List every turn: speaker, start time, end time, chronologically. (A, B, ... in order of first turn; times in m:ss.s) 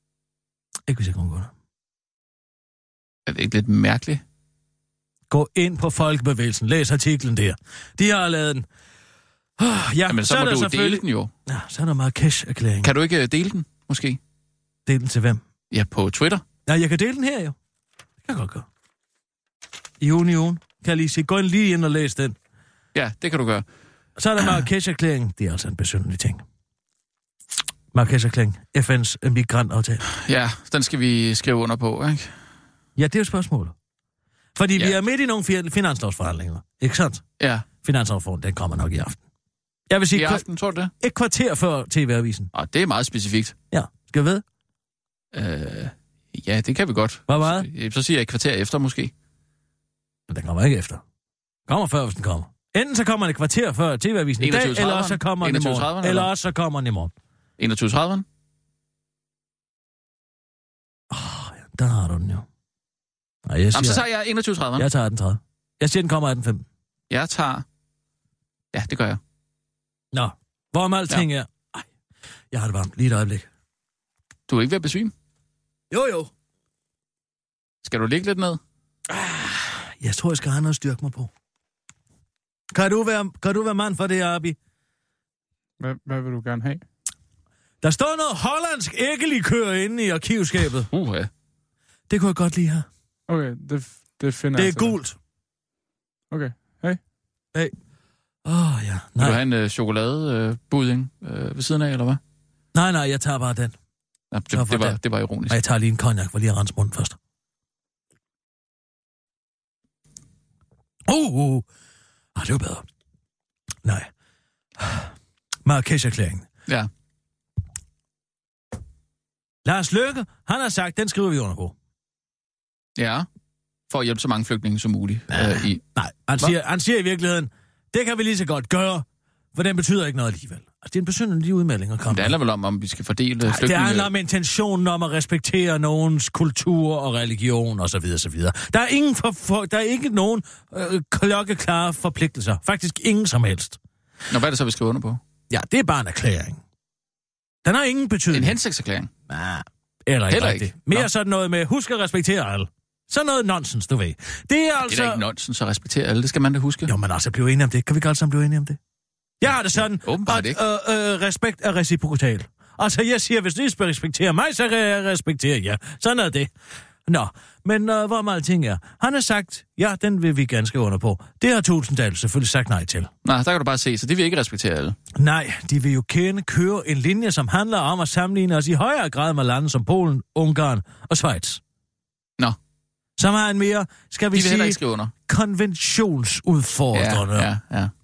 0:00.9-0:01.5 A
0:03.3-0:04.2 B
0:05.3-0:08.7 A
0:09.6-0:12.9 A
0:10.1-0:11.3 B
0:12.8-0:14.2 B
0:14.9-0:15.4 A
0:15.7-0:16.4 B
0:16.7-0:17.6 A
0:18.3-0:18.7 A
0:20.0-0:22.4 A
0:22.9-0:23.6 B
0:24.2-0:26.4 A
0:27.9-0:30.0 A
0:30.1-0:32.3 B
0:33.0-0:33.7 A
0:34.6-0:37.2 A
0:37.4-0:37.7 B
0:37.8-0:39.2 A
0:39.9-0:40.4 A
0:40.1-0:40.9 B
0:41.0-0:42.5 A
0:42.5-0:43.6 B
0:43.7-0:44.4 A
0:45.3-0:49.1 B
0:47.3-0:47.7 A
0:50.3-0:51.0 A
0:51.7-0:57.1 A
0:54.4-0:56.3 B
0:57.6-0:58.2 B
1:01.1-1:02.5 A
1:03.5-1:04.0 A
1:03.7-1:04.9 B
1:04.8-1:06.6 A
1:07.1-1:07.6 B
1:08.7-1:09.2 B
1:10.1-1:11.9 A
1:12.5-1:13.5 A
1:14.5-1:15.1 B
1:15.9-1:16.3 A
1:17.8-1:18.6 B
1:19.1-1:21.3 A
1:22.7-1:24.6 A
1:25.8-1:26.8 C
1:27.8-1:30.9 A
1:30.9-1:31.3 B
1:32.1-1:32.9 A
1:33.3-1:35.0 C
1:34.6-1:35.2 A
1:36.3-1:37.0 C
1:38.4-1:39.4 A
1:39.2-1:42.2 B
1:42.7-1:43.7 A
1:44.3-1:45.6 B
1:44.5-1:47.2 A
1:51.1-1:51.7 A
1:52.4-1:52.8 A
1:54.8-1:55.1 A
1:55.6-1:56.5 A
1:59.6-2:01.7 A
2:03.0-2:03.3 B
2:03.9-2:05.8 B
2:05.3-2:12.4 A
2:12.1-2:14.1 B
2:13.5-2:23.8 A
2:24.3-2:25.2 B
2:25.5-2:26.6 A
2:27.6-2:28.6 A
2:28.3-2:29.1 B
2:29.3-2:35.2 A
2:30.3-2:31.1 B
2:34.9-2:36.9 B
2:36.9-2:38.8 A
2:39.4-2:46.5 A
2:39.4-2:40.6 B
2:47.1-2:53.1 A
2:53.2-2:55.0 B
2:55.2-3:01.6 A
3:03.2-3:07.5 A
3:04.3-3:05.1 B
3:06.9-3:07.9 B